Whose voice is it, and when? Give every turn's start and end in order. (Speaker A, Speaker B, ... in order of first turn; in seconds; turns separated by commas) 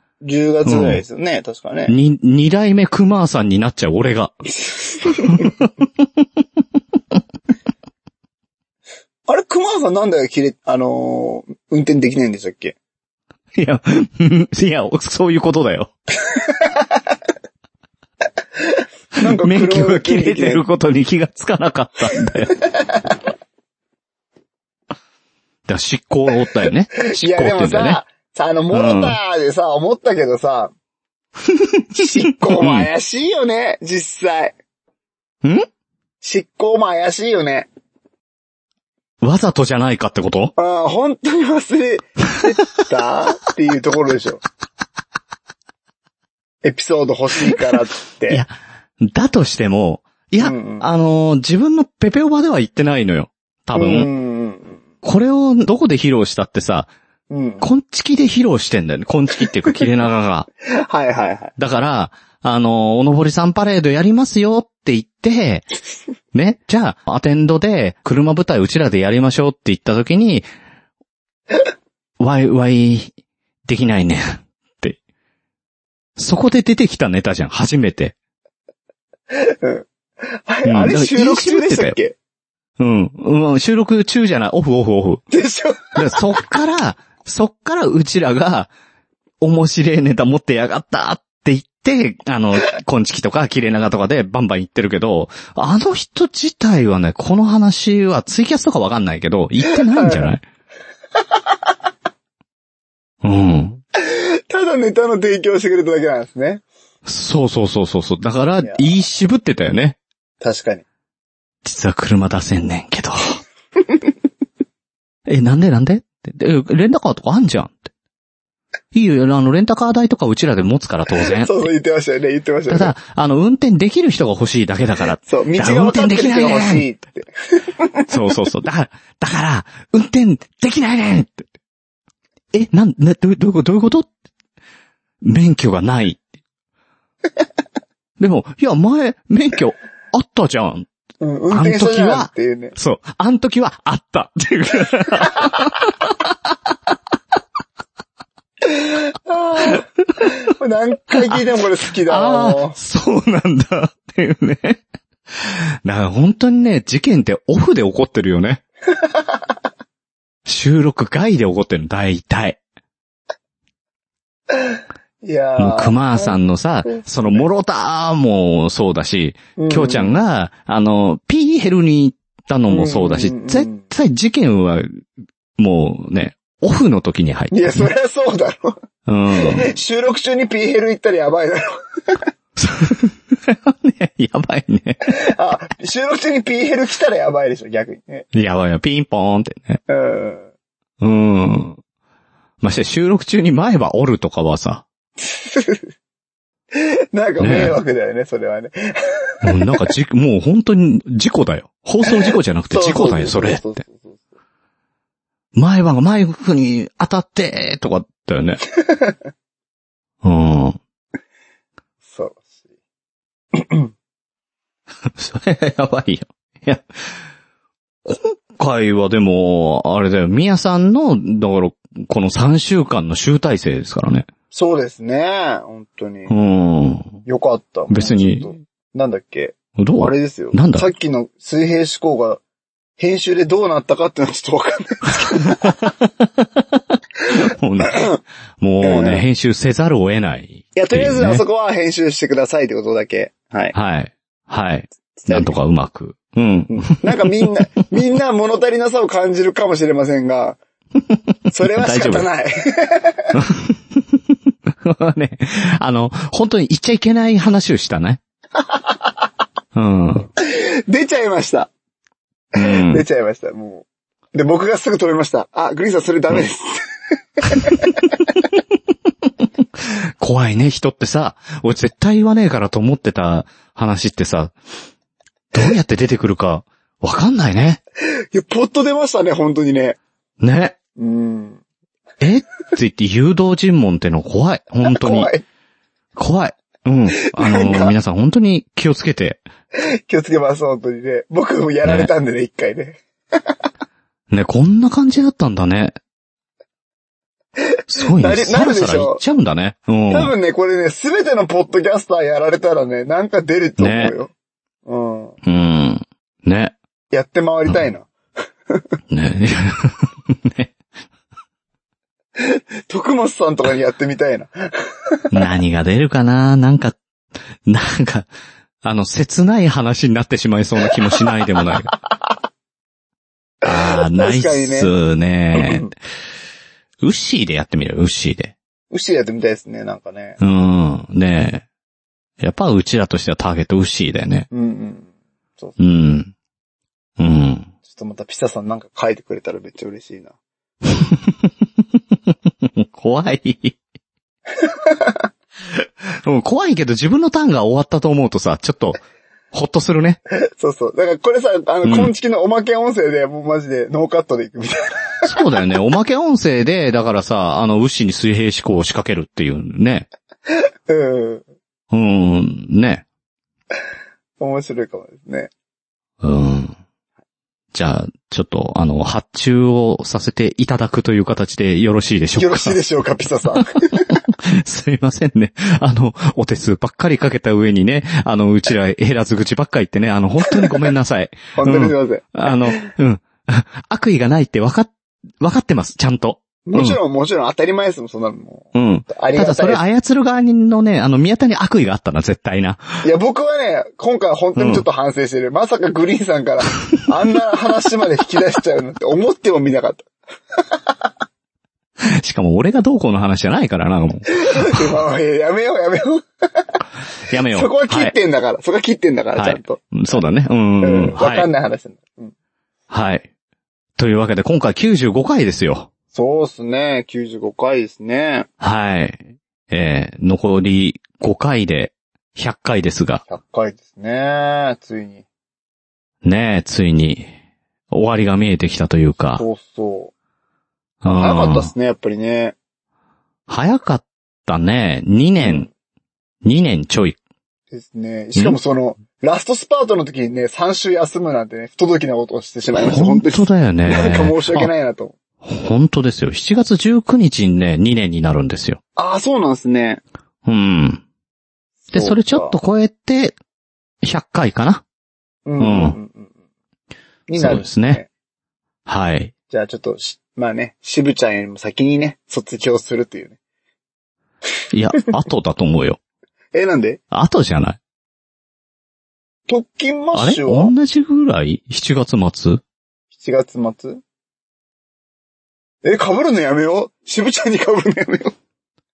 Speaker A: 0.2-1.9, Speaker B: 0.7-1.0, Speaker B: 1.9-4.4, Speaker A: 4.6-5.5, Speaker B: 5.2-6.2, Speaker A: 9.3-12.7, Speaker B: 13.5-15.9, Speaker A: 19.2-20.6, Speaker B: 19.2-22.6, Speaker B: 25.6-28.0, Speaker A: 27.0-30.7, Speaker B: 28.7-29.2, Speaker B: 31.5-32.9, Speaker A: 31.9-34.5, Speaker A: 36.2-37.7, Speaker B: 39.2-40.5, Speaker A: 40.5-44.4, Speaker A: 46.6-48.4, Speaker B: 48.3-54.1, Speaker A: 50.4-50.9, Speaker A: 53.7-54.8, Speaker B: 55.0-56.9, Speaker A: 57.3-57.7, Speaker B: 57.6-60.5, Speaker A: 60.8-61.5, Speaker B: 61.6-65.7, Speaker B: 66.3-70.5, Speaker B: 72.2-73.1, Speaker B: 73.7-75.0, Speaker B: 76.2-78.1, Speaker A: 79.3-79.8, Speaker A: 80.5-82.1, Speaker B: 80.6-82.0, Speaker B: 82.8-85.2, Speaker A: 85.3-86.2, Speaker B: 86.0-88.7, Speaker B: 89.4-100.4, Speaker A: 99.7-100.3, Speaker B: 103.2-103.8, Speaker A: 104.0-106.6, Speaker B: 107.0-110.0, Speaker A: 108.6-108.9, Speaker A: 110.4-110.8, Speaker B: 111.6-113.4, Speaker B: 115.2-117.9, Speaker B: 118.9-121.7, Speaker A: 121.4-122.9, Speaker B: 122.7-126.8, Speaker A: 125.2-128.1, Speaker B: 128.1-131.5, Speaker B: 132.5-134.1, Speaker B: 135.2-136.2, Speaker B: 138.2-140.9, Speaker A: 141.2-142.7, Speaker B: 141.5-146.1, Speaker A: 148.6-152.8, Speaker B: 152.0-154.8, Speaker B: 155.3-158.6, Speaker B: 160.4-162.6, Speaker A: 164.5-167.4, Speaker B: 165.6-175.0, Speaker A: 169.6-170.2, Speaker A: 172.7-173.8, Speaker B: 175.6-177.9, Speaker A: 177.5-178.8, Speaker B: 179.1-179.7, Speaker A: 179.3-182.2, Speaker B: 182.6-185.2, Speaker A: 185.1-188.2, Speaker B: 188.3-189.8, Speaker A: 189.9-190.5, Speaker B: 191.0-191.8, Speaker B: 192.6-194.8, Speaker A: 195.2-195.9, Speaker A: 196.7-199.8, Speaker B: 197.4-197.8, Speaker B: 199.4-203.7, Speaker A: 202.0-204.2, Speaker B: 205.5-208.6, Speaker A: 208.8-209.2, Speaker B: 210.2-210.8, Speaker A: 212.1-212.4, Speaker A: 213.5-213.9, Speaker B: 215.1-216.8, Speaker B: 218.0-224.3, Speaker A: 224.5-226.3, Speaker B: 226.3-227.2, Speaker A: 227.2-232.4, Speaker B: 227.9-228.5, Speaker B: 229.8-230.9, Speaker A: 233.0-235.8, Speaker B: 235.6-236.6, Speaker B: 237.3-238.1, Speaker A: 237.9-238.2, Speaker B: 238.6-241.4, Speaker A: 238.8-239.2, Speaker A: 240.8-243.7, Speaker B: 243.7-247.4, Speaker A: 245.2-245.5, Speaker A: 246.7-250.6, Speaker A: 251.5-253.3, Speaker B: 251.6-252.3, Speaker B: 253.3-254.2, Speaker B: 254.7-258.2, Speaker B: 259.7-260.3, Speaker A: 260.4-261.7, Speaker B: 262.5-263.0, Speaker A: 262.6-266.8, Speaker A: 267.4-267.8, Speaker B: 269.4-274.5, Speaker B: 275.5-277.8, Speaker A: 278.3-280.0, Speaker B: 280.4-280.8, Speaker A: 281.0-281.6, Speaker B: 282.2-285.3, Speaker A: 284.8-285.4, Speaker B: 286.1-289.4, Speaker A: 287.2-287.9, Speaker A: 289.8-293.0, Speaker B: 291.8-292.1, Speaker B: 294.3-296.0, Speaker A: 297.6-299.2, Speaker B: 297.9-300.3, Speaker A: 300.1-304.3, Speaker B: 303.8-304.1, Speaker A: 304.9-305.4, Speaker B: 305.4-306.7, Speaker A: 307.1-308.1, Speaker B: 309.1-310.7, Speaker A: 312.4-314.5, Speaker B: 315.3-317.0, Speaker B: 317.6-318.3, Speaker B: 318.8-321.9, Speaker B: 323.6-325.9, Speaker A: 323.7-324.9, Speaker A: 325.5-325.9, Speaker B: 327.0-328.5, Speaker A: 328.9-330.4, Speaker B: 330.4-331.6, Speaker B: 332.4-334.5, Speaker A: 334.5-335.8, Speaker B: 335.8-336.3, Speaker B: 337.2-337.7, Speaker A: 337.9-340.3, Speaker B: 340.9-341.5, Speaker B: 342.3-343.8, Speaker A: 344.6-345.3, Speaker B: 346.2-350.2, Speaker A: 350.6-355.3, Speaker B: 351.8-352.1, Speaker B: 355.2-360.1, Speaker A: 360.9-361.4, Speaker B: 361.9-363.0, Speaker A: 364.4-365.5, Speaker B: 366.2-366.8, Speaker B: 367.7-372.8, Speaker A: 372.4-374.2, Speaker B: 373.6-387.0, Speaker A: 380.5-380.9, Speaker A: 381.5-382.9, Speaker A: 386.6-389.8, Speaker B: 388.7-392.8, Speaker A: 393.0-400.1, Speaker B: 394.6-394.8, Speaker B: 402.0-404.9, Speaker A: 404.4-406.6, Speaker B: 407.3-408.1, Speaker A: 407.5-409.8, Speaker B: 409.4-411.5, Speaker A: 410.8-412.3, Speaker B: 412.9-413.3, Speaker B: 414.0-415.9, Speaker A: 416.1-418.5, Speaker B: 418.6-423.2, Speaker A: 423.3-425.2, Speaker B: 426.2-427.2, Speaker B: 427.9-429.4, Speaker A: 429.4-430.1, Speaker B: 431.0-431.7, Speaker A: 431.1-432.5, Speaker B: 433.5-435.7, Speaker A: 435.4-435.7, Speaker B: 436.4-437.2, Speaker A: 437.7-445.1, Speaker B: 442.8-444.7, Speaker B: 445.4-448.8, Speaker A: 448.9-450.0, Speaker B: 450.4-451.0, Speaker A: 451.9-452.6, Speaker B: 451.9-453.3, Speaker B: 454.0-454.8, Speaker A: 455.4-456.3, Speaker B: 455.6-455.9, Speaker A: 457.3-458.1, Speaker B: 457.4-458.0, Speaker B: 458.9-459.3, Speaker A: 459.5-463.4, Speaker B: 464.7-466.0, Speaker A: 466.5-467.0, Speaker B: 467.1-467.8, Speaker A: 469.5-470.7, Speaker B: 470.1-472.6, Speaker A: 473.2-474.0, Speaker A: 475.8-478.3